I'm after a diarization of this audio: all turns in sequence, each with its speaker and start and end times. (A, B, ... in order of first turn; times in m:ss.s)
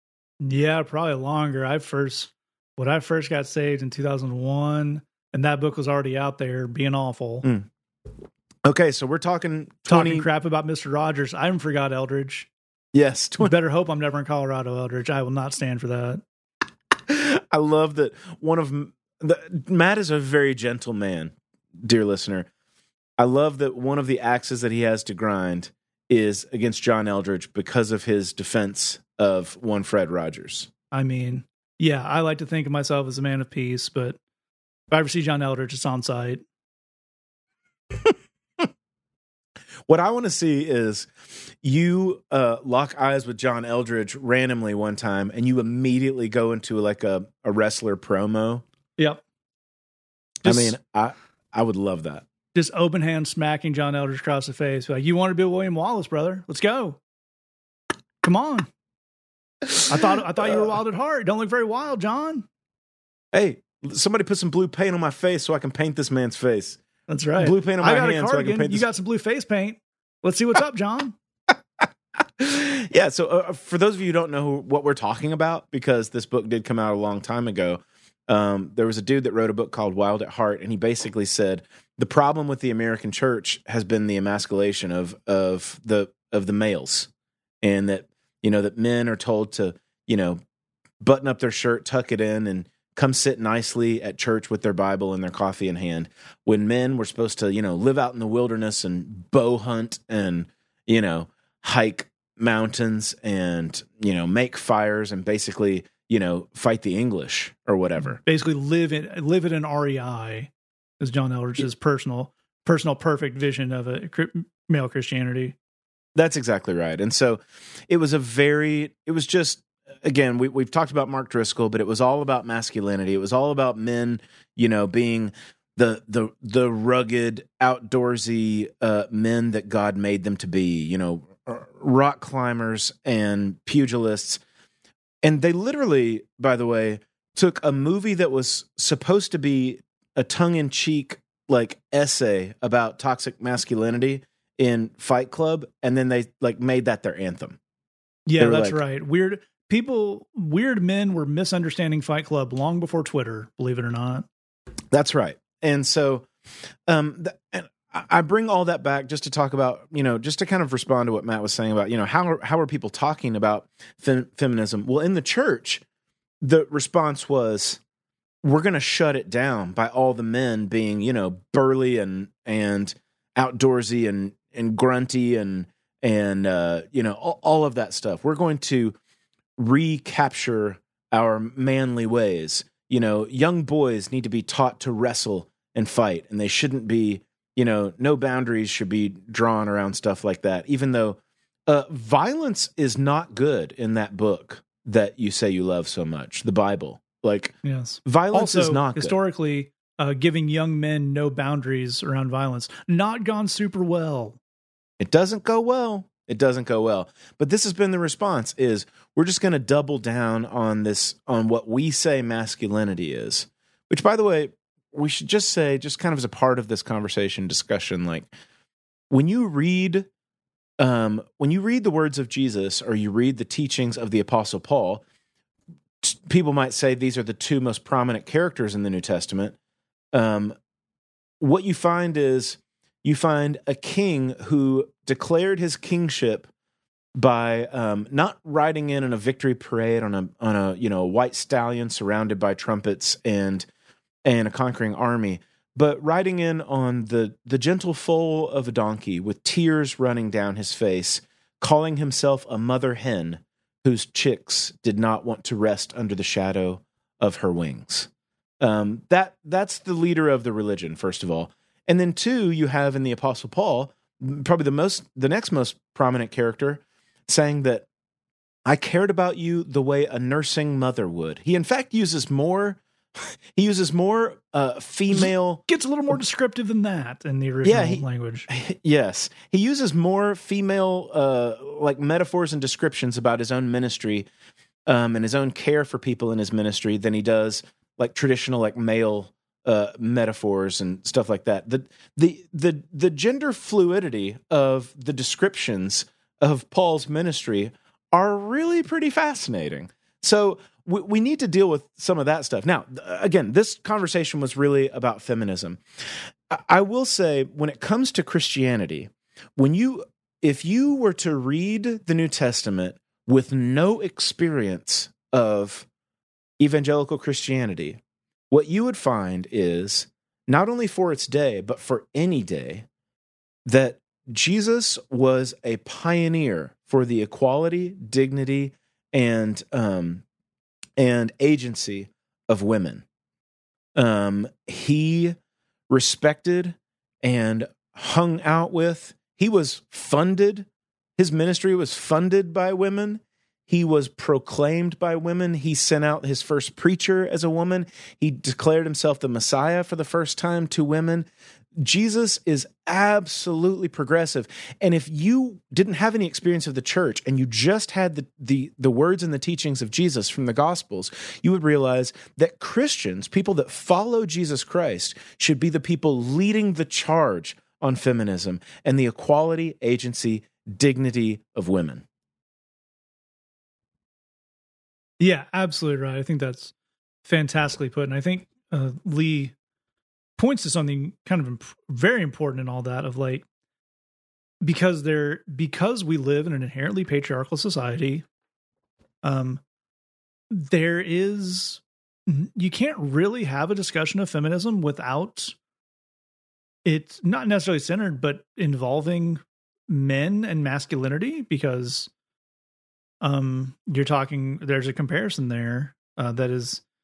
0:00.4-0:07.5 A
0:07.4-0:07.7 B
0:08.6-0:10.3 B
0:09.9-0:12.5 A
0:12.9-0:13.5 B
0:13.4-0:16.2 A
0:17.1-0:22.5 B
0:23.2-0:30.7 B
0:30.9-0:34.2 A
0:34.9-0:36.4 A
0:38.0-0:38.7 B
0:39.9-0:41.1 B
0:41.6-0:48.6 B
0:50.4-0:50.8 A
0:50.4-0:52.3 B
0:52.5-0:57.0 A
0:58.2-0:58.7 A
0:59.9-1:02.4 A
1:03.3-1:06.8 B
1:07.1-1:11.2 A
1:07.4-1:08.9 B
1:11.5-1:27.1 B
1:27.6-1:30.4 B
1:31.0-1:48.2 B
1:48.2-1:55.6 A
1:56.1-2:14.4 B
2:15.2-2:27.6 B
2:28.3-2:34.3 A
2:28.4-2:28.8 B
2:34.9-2:36.3 B
2:36.9-2:45.8 B
2:46.4-2:47.8 B
2:48.4-2:59.0 B
2:59.6-3:19.2 B
3:17.6-3:24.4 A
3:25.0-3:38.3 B
3:39.1-3:40.1 B
3:40.8-3:45.0 B
3:46.0-3:49.6 B
3:50.1-3:50.6 B
3:51.4-3:56.5 B
3:57.1-4:03.7 B
4:04.2-4:18.1 B
4:18.6-4:27.9 B
4:28.7-4:36.2 B
4:35.1-4:38.5 A
4:37.6-4:44.3 B
4:44.9-5:05.8 B
5:06.5-5:15.9 B
5:16.6-5:22.9 B
5:23.6-5:30.2 B
5:31.0-5:33.0 B
5:34.0-5:35.4 B
5:35.9-6:12.0 B
6:15.2-6:16.7 A
6:17.2-6:19.5 A
6:20.4-6:23.4 A
6:24.6-6:28.2 A
6:29.2-6:29.6 A
6:30.5-6:35.6 A
6:36.8-6:42.1 A
6:43.2-6:46.8 A